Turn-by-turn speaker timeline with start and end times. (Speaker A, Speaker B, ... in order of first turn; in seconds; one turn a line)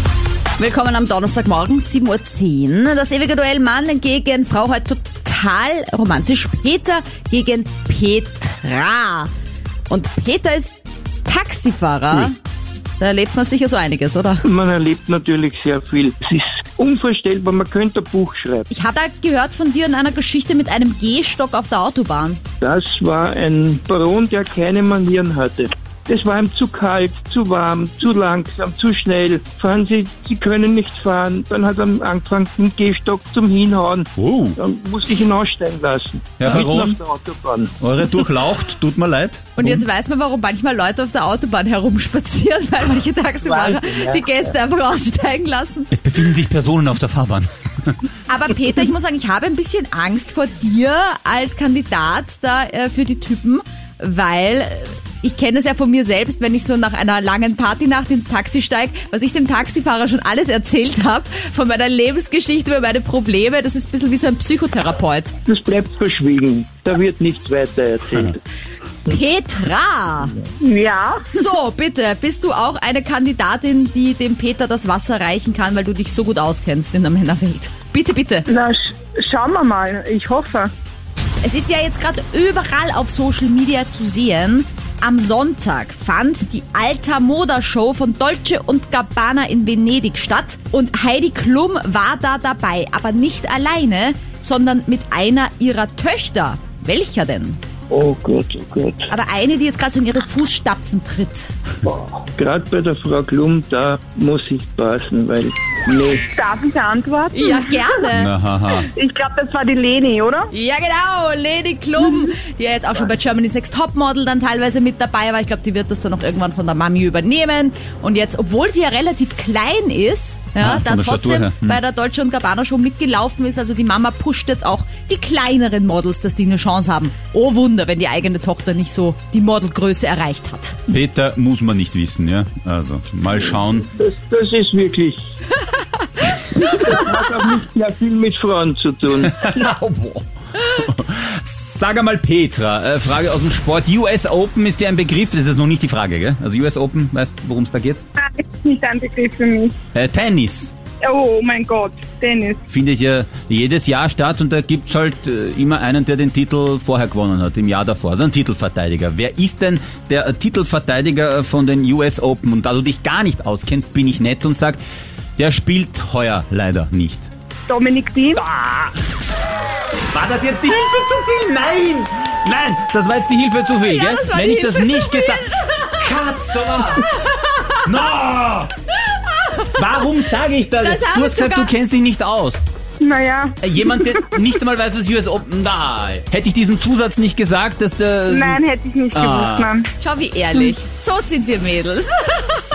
Speaker A: 0.6-9.3
Speaker A: 9.9-12.3
Speaker A: 13.0-14.4
Speaker B: 14.4-18.7
Speaker A: 18.7-22.4
Speaker B: 22.6-37.7
Speaker C: 34.2-34.6
Speaker C: 36.4-37.0
Speaker C: 37.8-39.8
Speaker A: 39.6-45.9
Speaker B: 43.4-44.3
Speaker C: 45.9-48.0
Speaker A: 48.3-65.3
Speaker B: 65.4-68.4
Speaker A: 69.1-70.3
Speaker D: 70.6-71.3
Speaker A: 71.3-78.5
Speaker D: 78.5-80.7
Speaker A: 81.4-97.6
Speaker B: 97.9-99.1
Speaker A: 99.1-101.5
Speaker B: 101.8-106.3
Speaker D: 106.3-107.8
Speaker A: 107.3-108.3
Speaker C: 108.1-108.9
Speaker D: 108.9-110.5
Speaker A: 110.5-130.8
Speaker C: 120.6-121.8
Speaker C: 130.9-133.9
Speaker B: 133.9-135.2
Speaker B: 136.5-139.5
Speaker C: 139.2-148.0
Speaker D: 148.2-149.7
Speaker C: 149.9-150.7
Speaker D: 151.0-152.6
Speaker C: 152.7-164.8
Speaker C: 165.4-167.3
Speaker D: 167.7-168.4
Speaker C: 168.4-168.9
Speaker C: 170.1-177.1
Speaker A: 173.8-175.8
Speaker C: 177.8-178.7
Speaker A: 179.1-179.7
Speaker C: 179.7-182.7
Speaker A: 180.8-181.7
Speaker D: 183.0-183.6
Speaker C: 183.6-188.6
Speaker D: 188.3-189.9
Speaker C: 189.1-189.7
Speaker A: 190.0-192.6